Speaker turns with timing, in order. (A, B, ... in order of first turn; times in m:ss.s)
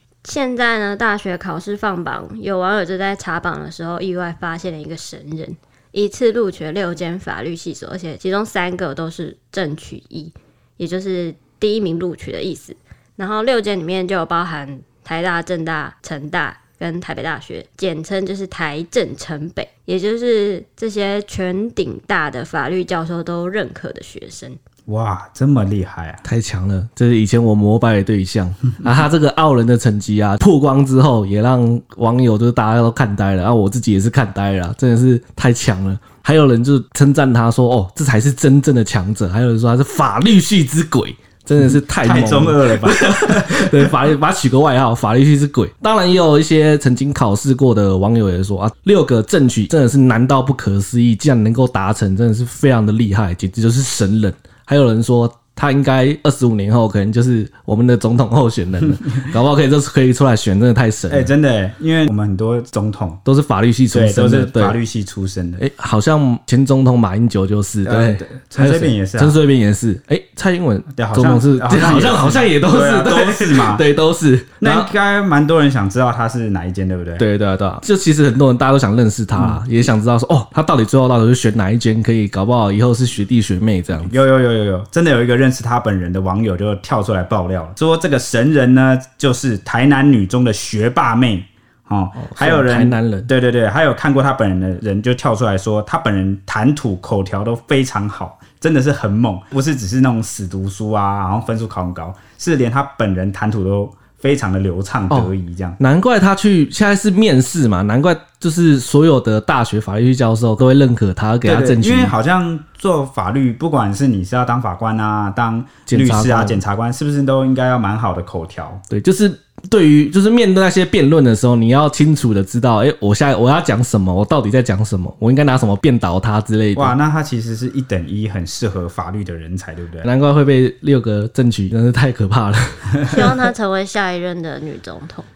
0:00.2-0:24.6 A
0:24.9-0:26.2 B
0:26.2-1:01.3 C
0:42.0-0:44.0 B
1:01.1-1:03.2 B
1:03.2-1:04.8 C
1:03.9-1:05.6 B
1:05.6-1:14.9 C
1:07.8-1:09.4 B
1:10.9-1:13.8 B
1:14.6-1:17.2 B
1:17.2-1:24.1 C
1:19.4-1:19.6 B
1:24.0-1:45.8 B
1:32.2-1:33.3 C
1:45.1-1:52.1 C
1:51.4-1:58.8 B
1:55.9-1:56.6 C
1:58.9-2:07.0 C
2:06.8-2:10.1 B
2:10.0-2:13.2 C
2:13.1-2:15.3 A